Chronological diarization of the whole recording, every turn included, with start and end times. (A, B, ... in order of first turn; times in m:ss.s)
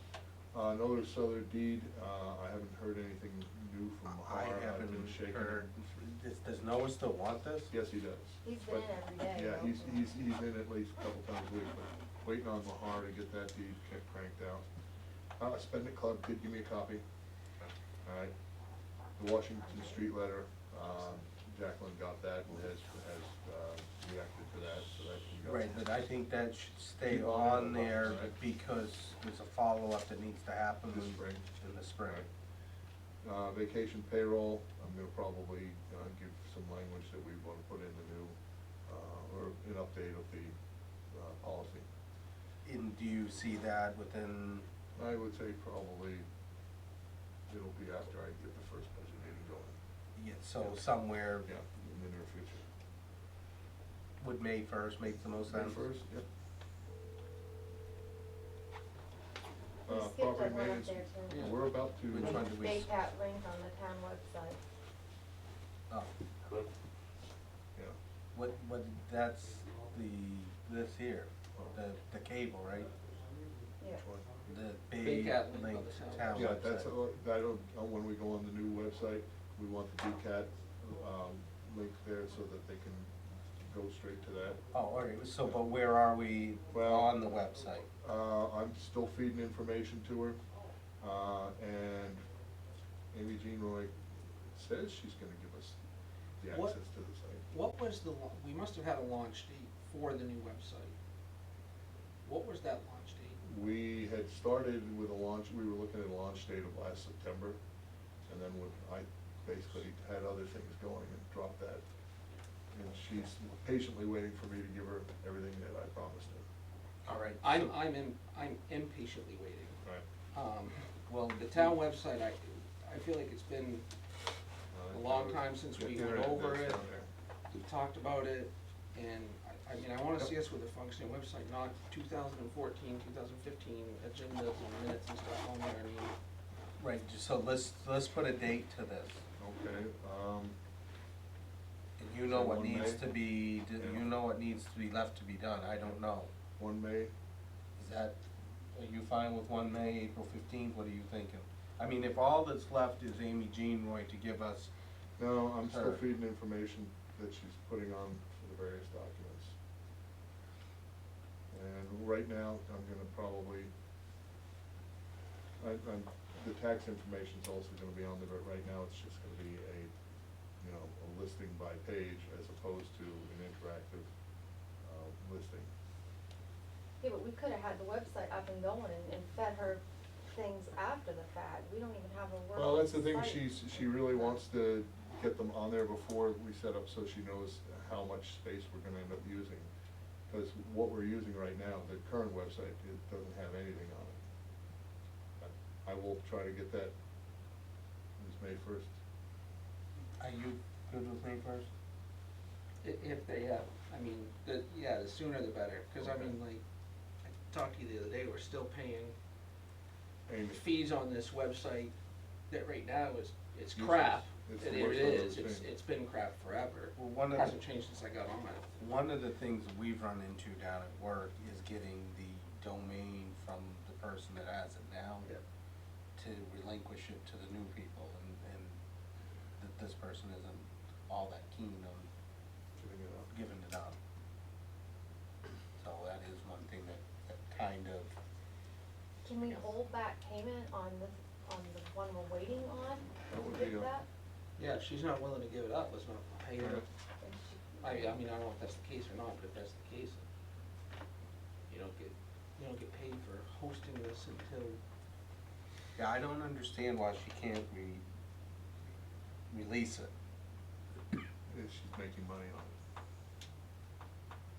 0:00.5-0:05.7 A
0:04.0-0:07.7 B
0:07.7-0:14.7 A
0:08.4-0:10.1 C
0:15.4-0:17.0 A
0:18.0-0:18.3 A
0:19.2-0:25.8 A
0:25.4-0:32.3 B
0:27.0-0:28.3 A
0:30.9-0:31.5 A
0:33.2-0:40.6 A
0:41.1-0:41.9 A
0:42.6-0:44.7 B
0:45.0-0:46.3 A
0:47.5-0:49.8 A
0:50.2-0:51.5 B
0:51.4-0:52.7 A
0:54.2-0:55.8 B
0:55.5-0:56.2 A
0:59.9-1:01.6 C
0:59.9-1:02.5 A
1:01.3-1:01.6 D
1:02.1-1:02.9 B
1:02.1-1:04.6 C
1:08.3-1:12.9 B
1:14.5-1:16.9 B
1:15.0-1:16.5 D
1:16.3-1:24.6 A
1:24.7-1:27.9 B
1:26.7-1:27.1 A
1:28.0-1:30.4 A
1:31.0-1:32.3 A
1:33.1-1:33.9 A
1:34.5-1:35.8 A
1:36.4-1:37.4 A
1:36.5-1:36.8 D
1:37.5-1:41.0 D
1:42.2-1:43.4 D
1:43.4-1:47.6 A
1:48.3-1:51.8 A
1:52.7-1:56.4 A
1:57.0-1:57.8 B
1:57.4-1:59.8 D
2:00.3-2:03.9 D
2:01.1-2:01.8 B
2:04.7-2:07.1 A
2:04.9-2:06.8 D
2:07.5-2:16.1 D
2:16.8-2:19.2 B
2:19.4-2:20.6 A
2:22.0-2:26.3 B
2:22.2-2:23.1 A
2:23.8-2:24.0 A
2:26.6-2:27.1 A
2:27.8-2:28.2 B
2:28.7-2:34.7 B
2:35.2-2:39.6 A
2:35.6-2:36.0 B
2:41.5-2:43.7 A
2:45.6-2:49.9 A
2:50.6-2:54.1 A
2:54.8-2:55.7 A
2:57.0-2:59.8 C
3:00.3-3:04.4 C
3:02.6-3:09.7 A
3:10.3-3:14.2 A
3:15.4-3:16.9 A
3:18.2-3:18.9 A
3:20.2-3:21.7 B
3:22.8-3:26.6 D
3:26.0-3:26.3 A
3:27.2-3:29.2 D
3:30.3-3:30.6 A
3:30.5-3:31.9 D
3:32.5-3:38.7 D
3:33.8-3:35.7 A
3:37.0-3:37.6 B
3:38.8-3:45.3 B
3:46.2-3:48.8 B
3:49.6-3:52.1 B
3:52.8-3:53.3 A
3:53.3-3:54.0 B
3:55.8-3:58.2 B
3:59.2-4:04.1 C
4:03.3-4:03.9 A
4:04.6-4:06.8 D
4:06.6-4:06.8 A
4:07.2-4:08.2 C
4:07.8-4:10.2 D
4:11.7-4:14.8 D
4:16.0-4:18.0 B
4:19.5-4:20.1 B
4:21.5-4:22.8 A